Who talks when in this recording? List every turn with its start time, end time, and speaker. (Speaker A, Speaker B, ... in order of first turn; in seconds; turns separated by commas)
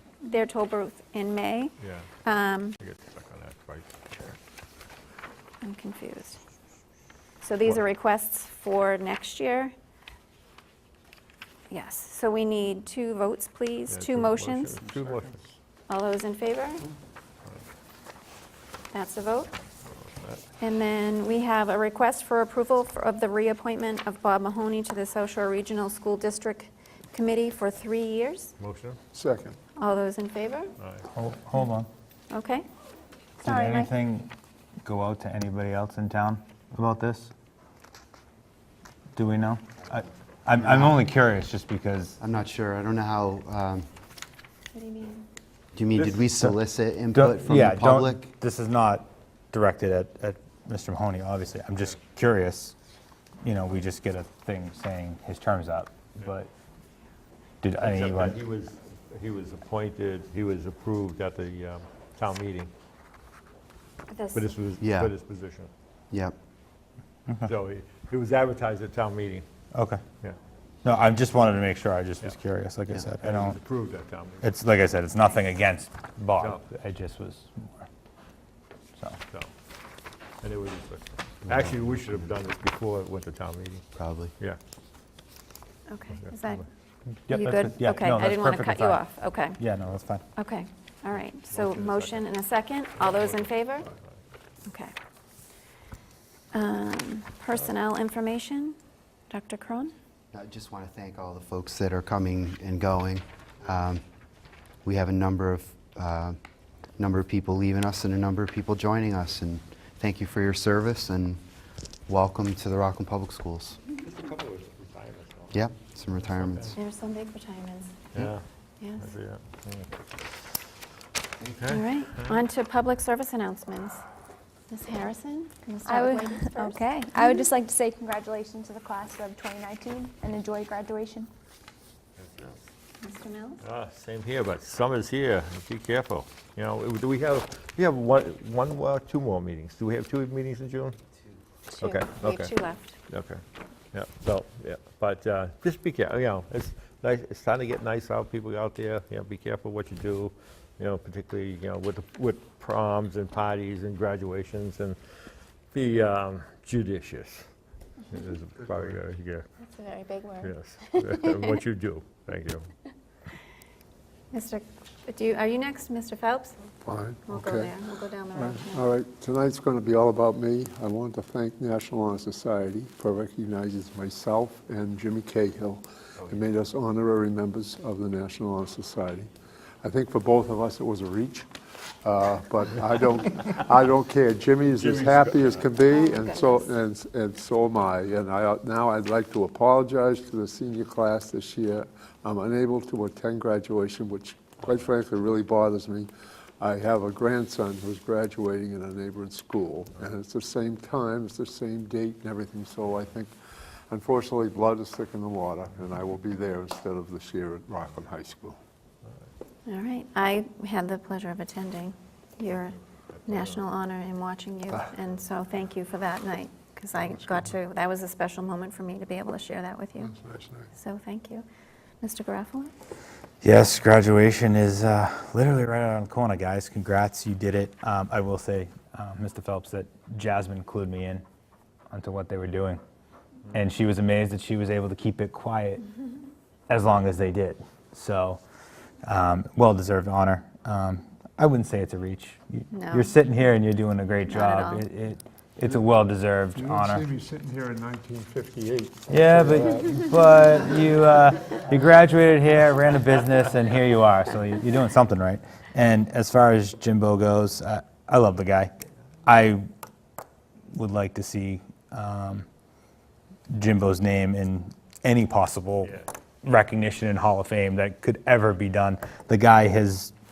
Speaker A: 0.2-2.8, Speaker B: 1.8-2.1, Speaker B: 2.8-4.4, Speaker A: 5.6-6.4, Speaker A: 7.4-9.7, Speaker A: 11.7-14.8, Speaker B: 13.9-15.4, Speaker A: 15.9-16.9, Speaker A: 18.9-19.5, Speaker B: 20.0-20.4, Speaker A: 20.6-28.6, Speaker B: 28.6-29.0, Speaker C: 29.1-29.6, Speaker A: 29.8-30.7, Speaker B: 30.8-31.1, Speaker D: 31.1-31.9, Speaker A: 32.3-32.7, Speaker D: 33.4-34.3, Speaker E: 33.4-33.9, Speaker D: 34.8-37.3, Speaker D: 39.2-42.2, Speaker F: 40.6-41.0, Speaker F: 42.2-43.9, Speaker A: 44.7-45.3, Speaker F: 45.7-48.2, Speaker D: 46.2-46.6, Speaker D: 47.1-52.8, Speaker D: 53.4-56.5, Speaker D: 57.6-58.4, Speaker B: 57.8-62.7, Speaker A: 64.1-64.5, Speaker B: 64.3-65.7, Speaker F: 64.8-65.1, Speaker F: 66.1-66.4, Speaker B: 67.4-69.5, Speaker D: 69.7-70.0, Speaker D: 70.8-73.6, Speaker B: 73.2-74.5, Speaker D: 74.4-77.9, Speaker B: 76.4-76.6, Speaker B: 80.4-84.6, Speaker F: 84.0-84.3, Speaker A: 85.9-86.7, Speaker B: 86.1-86.6, Speaker D: 87.3-89.0, Speaker A: 87.3-89.6, Speaker D: 89.5-90.2, Speaker A: 90.4-93.9, Speaker B: 91.5-92.3, Speaker B: 93.0-94.1, Speaker A: 94.7-94.9, Speaker A: 96.5-98.8, Speaker A: 99.3-99.9, Speaker F: 100.3-104.0, Speaker F: 104.8-106.4, Speaker F: 107.0-111.4, Speaker F: 112.1-113.8, Speaker B: 114.0-116.8, Speaker F: 115.5-116.8, Speaker A: 116.8-118.0, Speaker B: 118.1-118.4, Speaker A: 118.8-119.1, Speaker B: 119.0-119.9, Speaker B: 121.4-122.5, Speaker A: 121.7-124.0, Speaker A: 124.7-127.5, Speaker E: 125.8-131.3, Speaker B: 132.2-132.6, Speaker A: 133.0-133.6, Speaker B: 133.6-141.0, Speaker A: 141.7-143.0, Speaker B: 141.8-142.5, Speaker B: 143.1-155.0, Speaker B: 155.7-157.5, Speaker B: 158.1-159.5, Speaker A: 159.7-160.5, Speaker B: 160.4-162.7, Speaker A: 164.3-166.7, Speaker C: 166.9-167.8, Speaker A: 167.3-168.9, Speaker C: 168.3-179.3, Speaker B: 176.2-176.4, Speaker C: 179.8-181.5, Speaker C: 182.0-203.3, Speaker B: 184.8-185.6, Speaker A: 185.9-186.7, Speaker C: 203.9-208.6, Speaker A: 209.7-220.1, Speaker B: 213.1-213.6, Speaker C: 217.0-217.5, Speaker C: 220.0-220.7, Speaker A: 220.7-221.4, Speaker A: 222.0-222.7, Speaker D: 223.4-231.2, Speaker D: 231.9-232.8, Speaker D: 233.5-235.8, Speaker D: 236.7-238.4, Speaker D: 239.1-247.1, Speaker A: 242.7-243.2, Speaker A: 244.3-244.8, Speaker C: 246.6-250.5, Speaker D: 249.1-258.7, Speaker D: 259.2-259.6, Speaker D: 260.7-262.5, Speaker D: 263.5-270.1